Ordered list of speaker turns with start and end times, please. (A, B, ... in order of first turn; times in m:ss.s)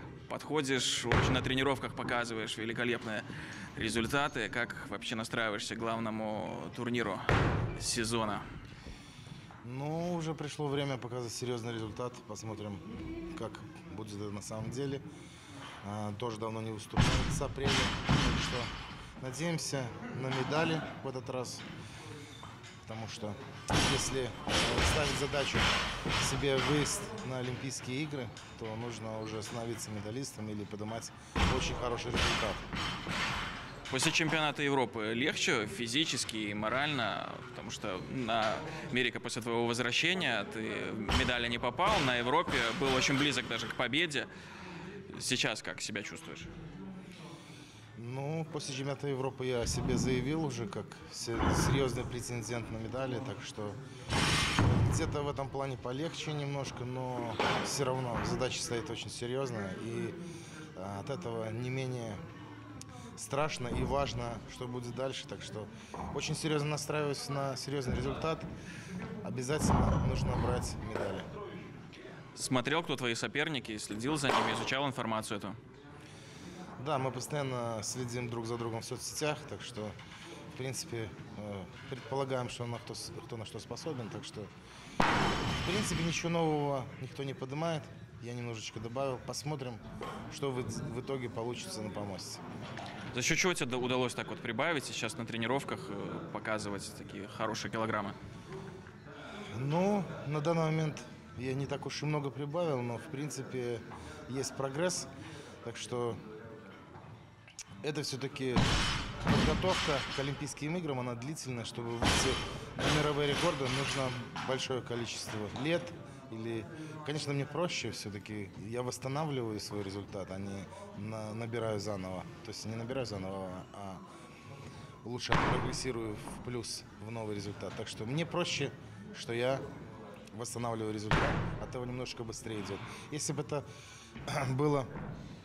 0:00.2-0:03.2 A
0:03.8-0:08.4 A
0:09.6-0:15.0 B
0:15.8-0:21.7 B
0:22.8-0:32.6 B
0:33.9-0:44.3 A
0:45.1-0:46.5 A
0:48.0-0:53.8 B
0:54.6-1:00.2 B
1:00.8-1:02.2 B
1:03.2-1:08.5 B
1:09.2-1:11.3 B
1:12.3-1:15.6 A
1:16.8-1:19.9 B
1:20.5-1:24.5 B
1:25.6-1:32.4 B
1:33.1-1:38.2 A
1:39.5-1:45.1 B
1:45.6-1:46.2 B
1:47.8-1:48.7 B
1:49.2-2:04.0 B
2:05.0-2:09.6 B
2:10.3-2:13.6 B
2:14.3-2:14.9 B